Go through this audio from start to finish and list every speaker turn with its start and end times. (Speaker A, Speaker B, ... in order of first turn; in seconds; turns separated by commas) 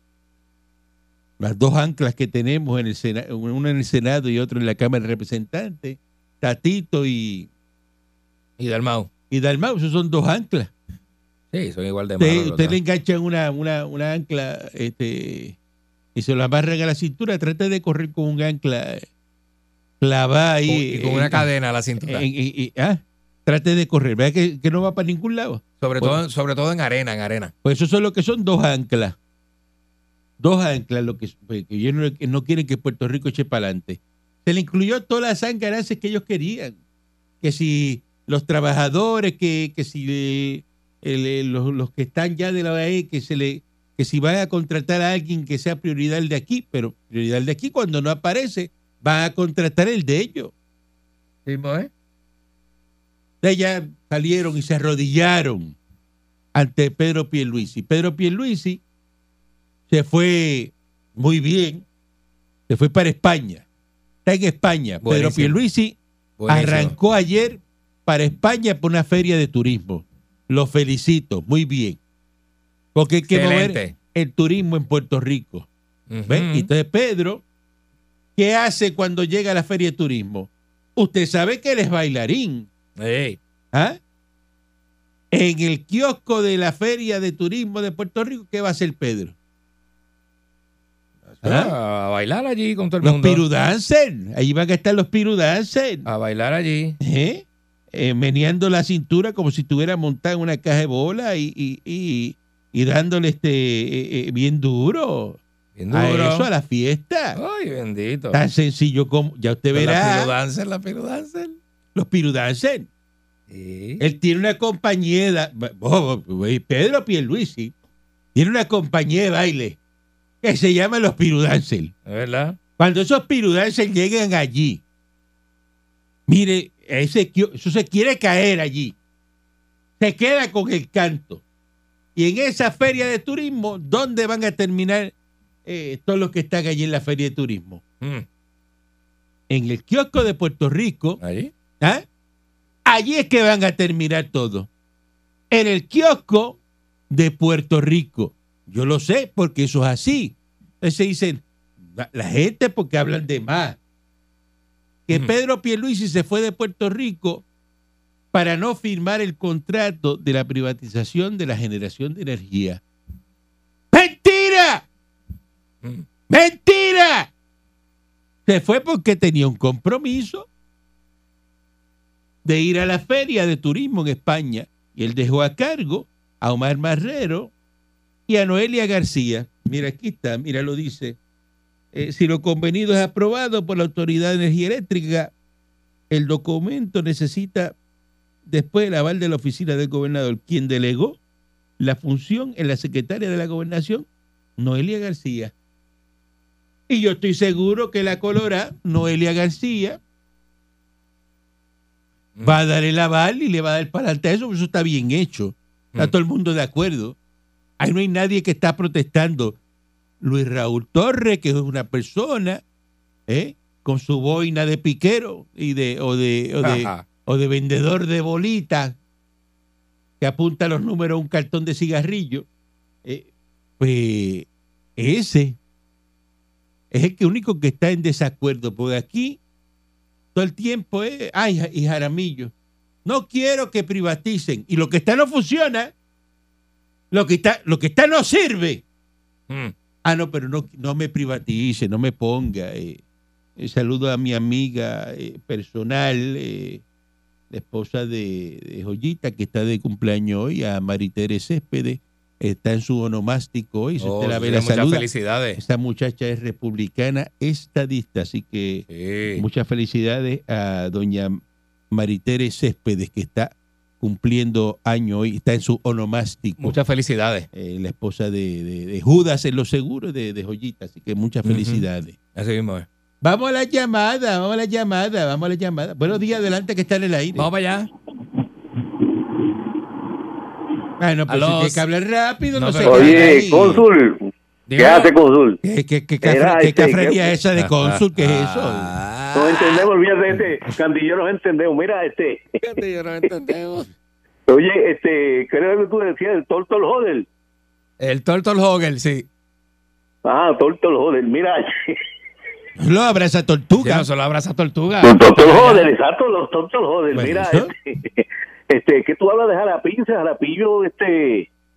Speaker A: 1.4-7.5, Speaker B: 8.6-9.1, Speaker A: 9.3-10.7, Speaker B: 11.5-12.8, Speaker A: 12.2-15.6, Speaker A: 16.1-19.1, Speaker A: 20.0-21.5, Speaker B: 20.7-22.3, Speaker A: 22.0-26.2, Speaker B: 25.8-27.5, Speaker A: 27.6-29.2, Speaker A: 30.4-36.8, Speaker A: 37.4-50.5, Speaker B: 51.5-51.9, Speaker A: 53.4-55.8, Speaker A: 56.5-58.8, Speaker A: 59.9-61.8, Speaker A: 62.7-63.6, Speaker A: 64.2-66.0, Speaker B: 65.0-65.6, Speaker B: 66.4-67.0, Speaker A: 66.5-72.0, Speaker A: 73.0-75.7, Speaker B: 73.3-73.9, Speaker B: 76.1-76.7, Speaker A: 76.3-77.4, Speaker A: 78.4-82.7, Speaker B: 83.0-83.4, Speaker A: 83.7-84.0, Speaker A: 85.3-89.3, Speaker B: 91.3-93.4, Speaker A: 91.4-91.7, Speaker A: 93.0-96.1, Speaker B: 96.0-97.0, Speaker A: 97.0-105.4, Speaker B: 105.8-106.5, Speaker A: 105.9-107.4, Speaker B: 107.3-108.4, Speaker A: 108.3-110.3, Speaker B: 109.7-111.6, Speaker A: 112.0-112.9, Speaker B: 113.5-114.0, Speaker A: 114.0-117.7, Speaker A: 118.3-119.8, Speaker A: 120.4-121.9, Speaker B: 122.1-122.6, Speaker A: 122.8-124.8, Speaker A: 126.3-128.9, Speaker A: 130.0-131.4, Speaker A: 132.2-135.1, Speaker A: 135.7-137.8, Speaker A: 139.5-141.2, Speaker B: 141.2-141.5, Speaker A: 141.8-142.1, Speaker A: 142.9-144.7, Speaker A: 145.5-146.6, Speaker A: 147.1-153.8, Speaker A: 155.1-157.4, Speaker A: 158.3-162.8, Speaker A: 163.9-164.9, Speaker A: 166.3-167.3, Speaker A: 168.5-170.5, Speaker A: 172.4-177.5, Speaker A: 178.3-181.2, Speaker A: 181.9-185.3, Speaker A: 186.1-187.8, Speaker A: 188.5-191.2, Speaker A: 191.8-194.1, Speaker A: 194.6-195.5, Speaker A: 196.9-200.0, Speaker A: 202.4-207.2, Speaker A: 207.8-209.6, Speaker A: 210.2-212.6, Speaker A: 213.3-219.0, Speaker B: 216.6-217.1, Speaker A: 220.2-222.5, Speaker A: 223.8-225.6, Speaker A: 226.9-229.4, Speaker A: 230.3-232.5, Speaker A: 233.1-235.9, Speaker A: 237.1-238.8, Speaker B: 239.5-239.7, Speaker A: 240.1-243.0, Speaker A: 243.6-246.8, Speaker A: 247.5-266.8, Speaker B: 254.0-255.6, Speaker B: 258.9-259.4, Speaker B: 266.6-267.5, Speaker A: 267.5-272.2, Speaker B: 271.4-272.9, Speaker A: 273.2-277.5, Speaker B: 277.4-277.9, Speaker A: 281.0-283.8, Speaker B: 281.3-281.8, Speaker B: 282.5-283.5, Speaker C: 282.9-285.6, Speaker B: 284.7-285.1, Speaker A: 285.6-288.9, Speaker C: 286.2-287.3, Speaker B: 287.6-289.9, Speaker C: 289.4-292.5, Speaker B: 292.6-293.9, Speaker C: 294.5-297.3, Speaker B: 298.0-299.3, Speaker C: 300.2-302.0, Speaker A: 302.8-304.1, Speaker B: 303.8-305.9, Speaker C: 305.0-311.5, Speaker A: 307.1-307.7